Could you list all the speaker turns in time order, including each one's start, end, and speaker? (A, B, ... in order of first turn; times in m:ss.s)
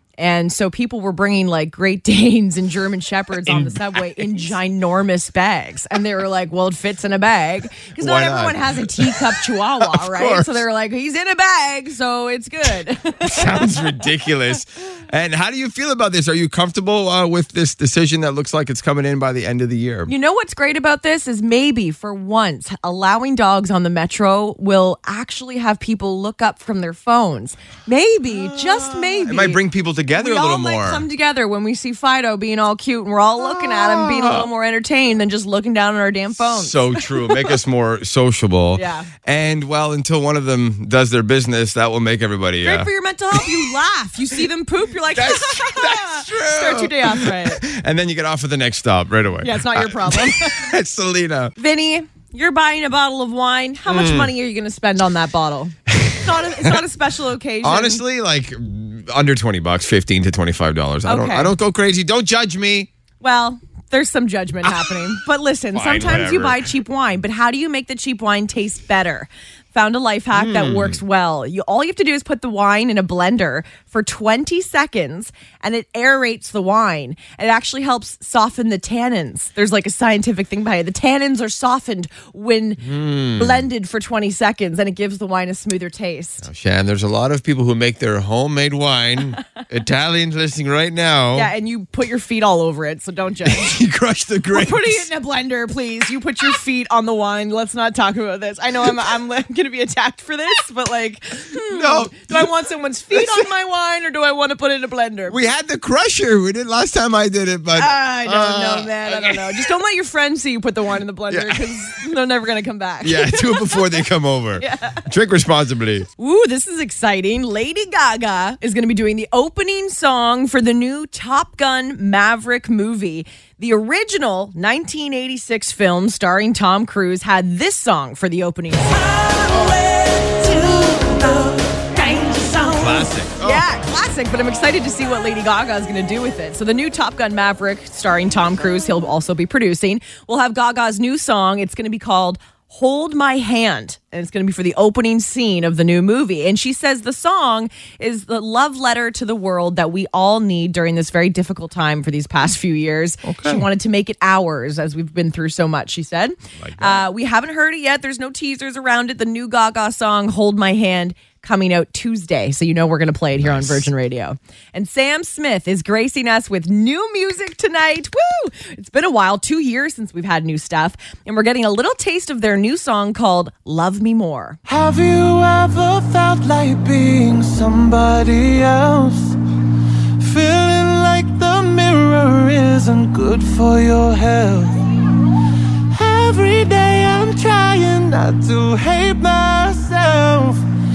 0:00.2-0:13.9 A
0:03.4-0:04.6 B
0:08.0-0:10.6 B
0:13.2-0:20.1 B
0:20.1-0:37.6 A
0:28.3-0:31.1 B
0:33.4-0:34.5 B
0:36.4-0:43.7 B
0:38.8-0:39.1 A
0:42.6-0:47.6 A
0:45.1-0:51.5 B
0:49.4-0:50.7 A
0:51.6-0:58.0 A
0:53.9-0:54.3 B
0:55.9-0:56.8 B
0:57.6-1:02.9 B
1:01.0-1:01.5 A
1:03.2-1:26.4 A
1:04.6-1:05.0 B
1:05.7-1:06.7 B
1:10.3-1:11.0 B
1:22.8-1:23.7 B
1:26.4-1:31.5 B
1:31.3-1:33.8 A
1:33.4-1:35.1 B
1:34.5-1:45.4 A
1:41.7-1:42.5 B
1:43.1-1:43.5 B
1:45.3-1:49.7 B
1:47.8-1:54.0 A
1:51.3-1:51.9 B
1:53.0-1:56.1 B
1:54.6-1:55.1 A
1:56.2-2:54.6 A
2:12.8-2:13.6 B
2:33.2-2:33.6 B
2:36.6-2:37.1 B
2:43.4-2:43.9 B
2:54.7-2:59.4 C
3:00.2-3:04.8 C
3:05.9-3:10.6 C